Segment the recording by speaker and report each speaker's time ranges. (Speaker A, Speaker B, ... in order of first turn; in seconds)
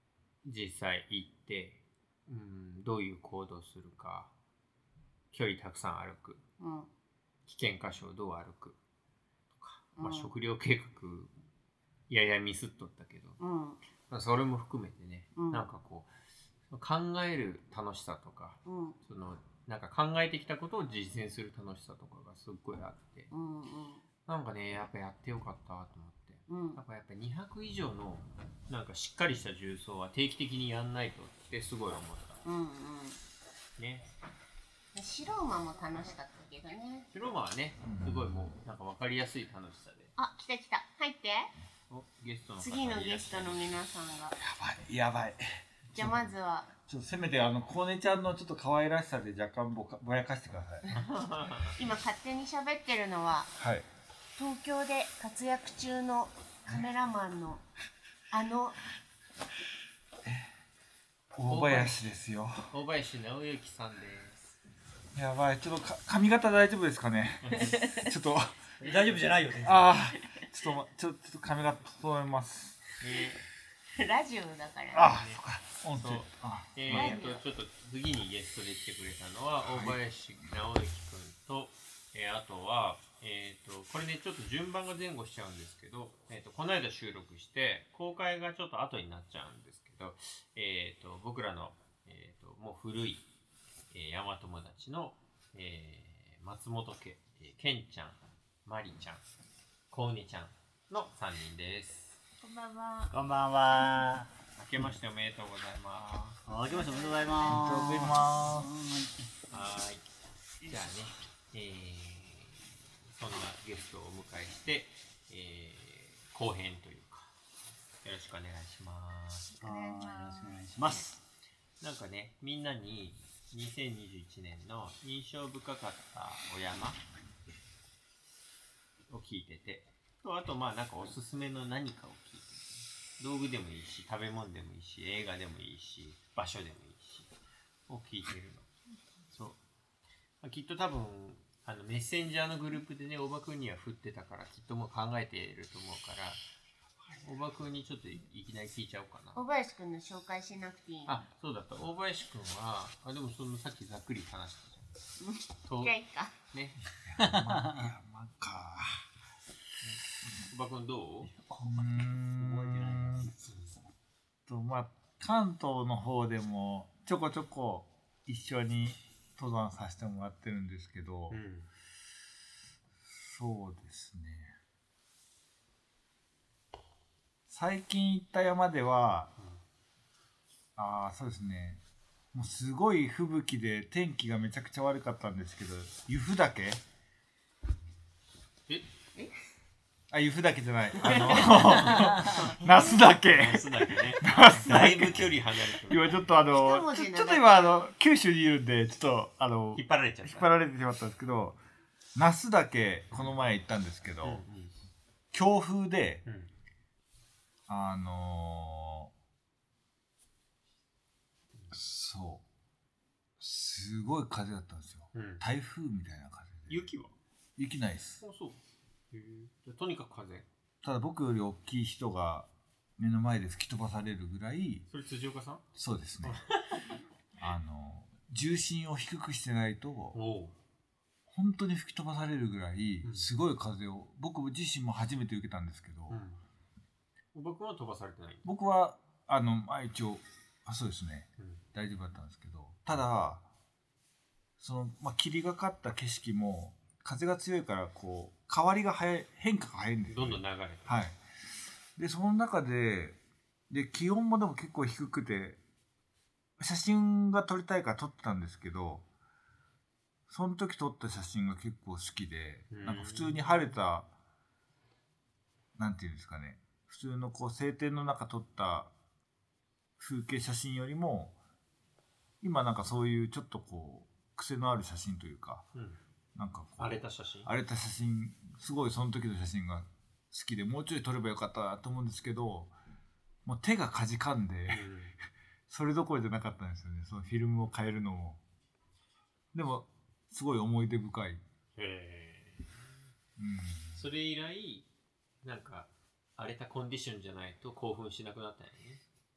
Speaker A: 0.4-4.3, 5.3-6.4, 7.5-8.8, 9.6-11.3, 12.1-13.4, 14.0-16.1, 16.7-23.3, 24.3-32.4, 33.8-34.1, 37.1-40.1, 41.9-43.7, 50.9-51.8, 61.5-62.1, 62.7-64.5, 67.4-67.7, 68.9-69.2, 73.0-73.4, 75.0-75.4, 75.9-93.2, 93.9-99.2, 99.9-102.2, 104.6-106.4, 109.5-110.1, 110.6-117.3, 118.0-119.6, 121.8-127.0, 129.1-137.3, 137.9-138.7, 139.3-139.6, 140.4-146.4, 147.2-149.4, 151.1-154.8, 155.7-155.9, 156.5-157.4, 159.8-161.3, 171.3-171.7, 191.3-192.6, 193.2-196.2, 199.8-200.5, 203.1-203.4, 204.2-204.7, 206.2-206.5, 215.1-215.4, 216.7-217.1, 218.2-218.6, 219.1-220.5, 224.9-225.6, 226.2-226.8, 230.1-230.6, 236.1-236.4, 237.3-238.4, 250.1-251.1, 262.7-263.6, 275.7-276.0, 276.8-277.5, 284.7-285.1, 291.8-292.8, 293.9-294.9, 295.4-299.0
Speaker B: 6.6-6.9, 10.0-10.3, 13.4-13.8, 15.3-15.7, 18.7-19.0, 23.3-24.0, 26.5-26.8, 32.4-33.2, 34.9-37.1, 40.2-41.5, 42.6-44.4, 45.9-46.7, 51.8-53.5, 54.4-57.6, 58.3-58.8, 74.0-75.1, 76.9-77.3, 102.5-103.1, 106.8-107.2, 119.6-120.6, 149.3-151.2, 155.2-156.3, 191.0-191.4, 192.6-193.0, 196.5-197.6
Speaker C: 37.9-38.2, 44.4-46.3, 46.9-50.9, 53.6-53.9, 61.4-62.7, 65.2-68.5, 69.6-72.8, 74.9-77.2, 79.7-80.0, 107.4-108.7, 157.1-159.1, 161.6-163.3, 164.5-171.4, 173.2-174.5, 177.5-179.3, 180.8-181.8, 182.3-186.8, 190.1-201.6, 202.2-204.4, 205.3-206.2, 207.7-209.1, 211.7-212.4, 213.4-216.9, 217.6-218.2, 220.8-224.8, 225.8-226.4, 227.4-230.2, 231.3-236.2, 238.4-243.4, 244.6-251.2, 252.0-253.2, 253.7-255.6, 256.6-259.0, 260.3-264.1, 265.8-268.9, 270.0-271.4, 272.4-275.7, 276.4-282.7, 283.5-284.9, 285.7-288.4, 289.5-291.4, 293.4-294.1
Speaker D: 68.8-70.0, 103.1-104.3, 106.5-109.1, 119.6-121.2, 157.3-157.9, 161.3-163.4